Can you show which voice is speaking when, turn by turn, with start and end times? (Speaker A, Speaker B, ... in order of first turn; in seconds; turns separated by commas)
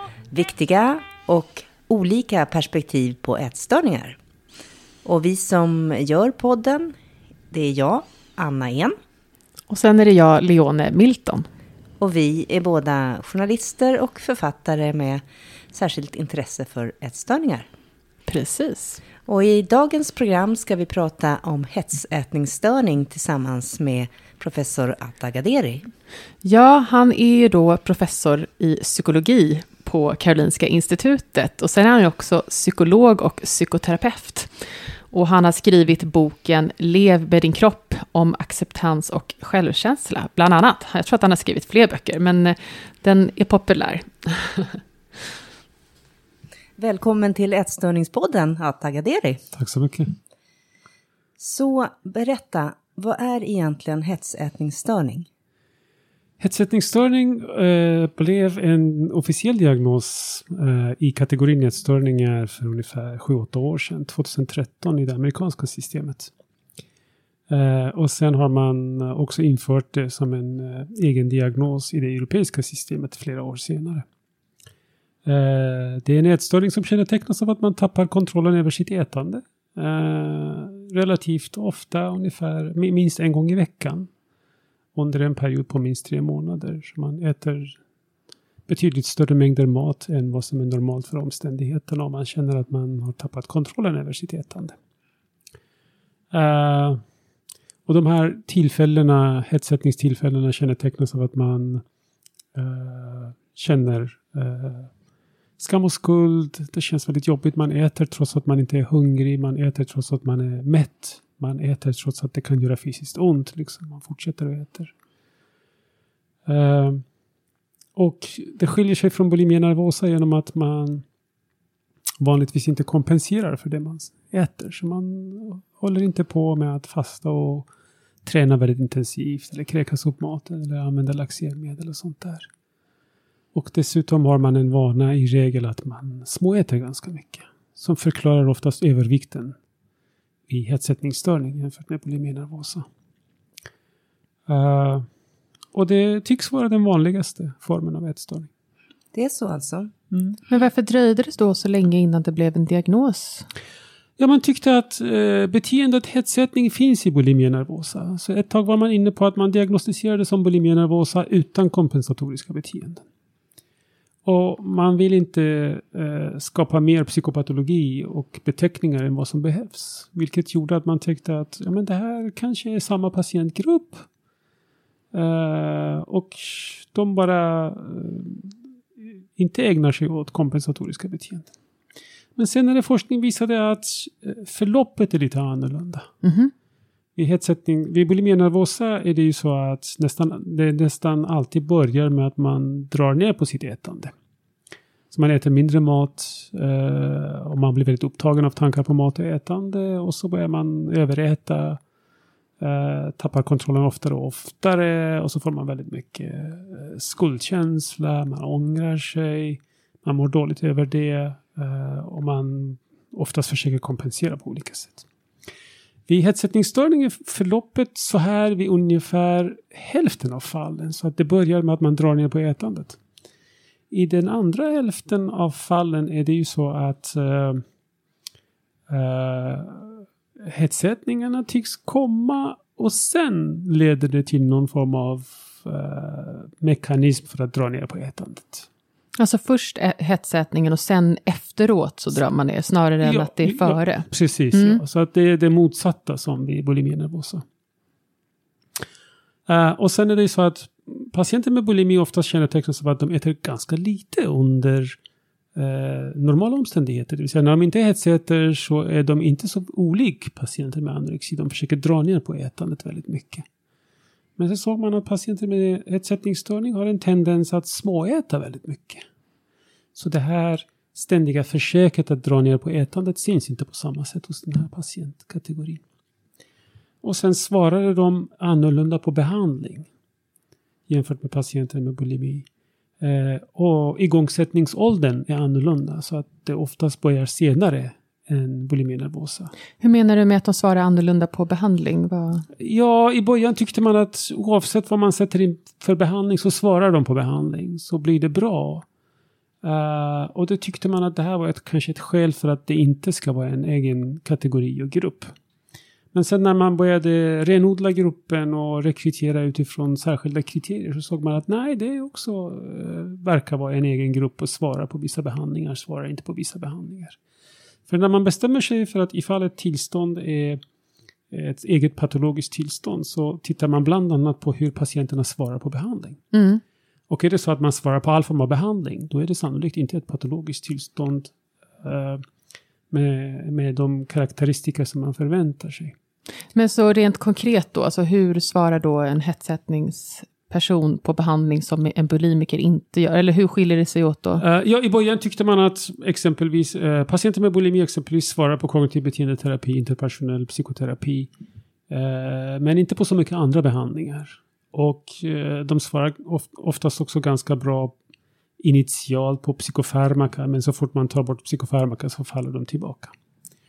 Speaker A: 0.3-4.2, Speaker A: 5.0-6.9, Speaker A: 7.5-9.0, Speaker B: 9.7-11.5, Speaker A: 12.0-17.7, Speaker B: 18.3-19.0, Speaker A: 19.3-25.9, Speaker B: 26.4-44.8, Speaker A: 46.8-49.4, Speaker C: 49.5-50.1, Speaker A: 51.4-55.3, Speaker C: 56.4-66.3, Speaker C: 67.5-74.1, Speaker C: 75.2-84.1, Speaker C: 85.0-87.8, Speaker C: 88.7-94.8, Speaker C: 96.3-97.0, Speaker C: 97.9-101.8, Speaker C: 102.5-104.9, Speaker C: 105.6-114.9, Speaker C: 116.5-117.0, Speaker C: 118.0-121.0, Speaker C: 122.2-127.7, Speaker C: 128.2-132.5, Speaker C: 133.5-139.6, Speaker C: 140.5-142.9, Speaker C: 144.5-145.1, Speaker C: 145.7-148.5, Speaker A: 149.1-149.9, Speaker C: 150.1-150.4, Speaker B: 150.5-153.5, Speaker C: 154.2-163.1, Speaker C: 164.2-174.1, Speaker C: 175.1-181.5, Speaker C: 182.4-186.1, Speaker B: 186.2-186.5, Speaker C: 187.2-194.1, Speaker C: 195.1-201.8, Speaker C: 202.6-215.1, Speaker C: 216.1-223.0, Speaker C: 223.9-227.6, Speaker C: 228.9-238.7, Speaker B: 239.2-244.8, Speaker C: 243.0-247.4, Speaker C: 249.5-255.0, Speaker C: 255.6-263.5, Speaker C: 264.4-269.1, Speaker C: 269.9-275.8, Speaker C: 277.0-279.9, Speaker C: 280.9-282.5, Speaker C: 283.0-289.5, Speaker B: 289.8-292.5, Speaker C: 292.6-298.9, Speaker C: 299.6-305.3, Speaker C: 306.1-317.2, Speaker C: 317.9-320.6, Speaker C: 321.3-326.2, Speaker B: 326.3-326.6, Speaker C: 327.1-332.2, Speaker C: 332.9-336.0, Speaker B: 336.6-344.4, Speaker C: 344.4-351.3, Speaker C: 351.9-358.0, Speaker C: 358.6-363.1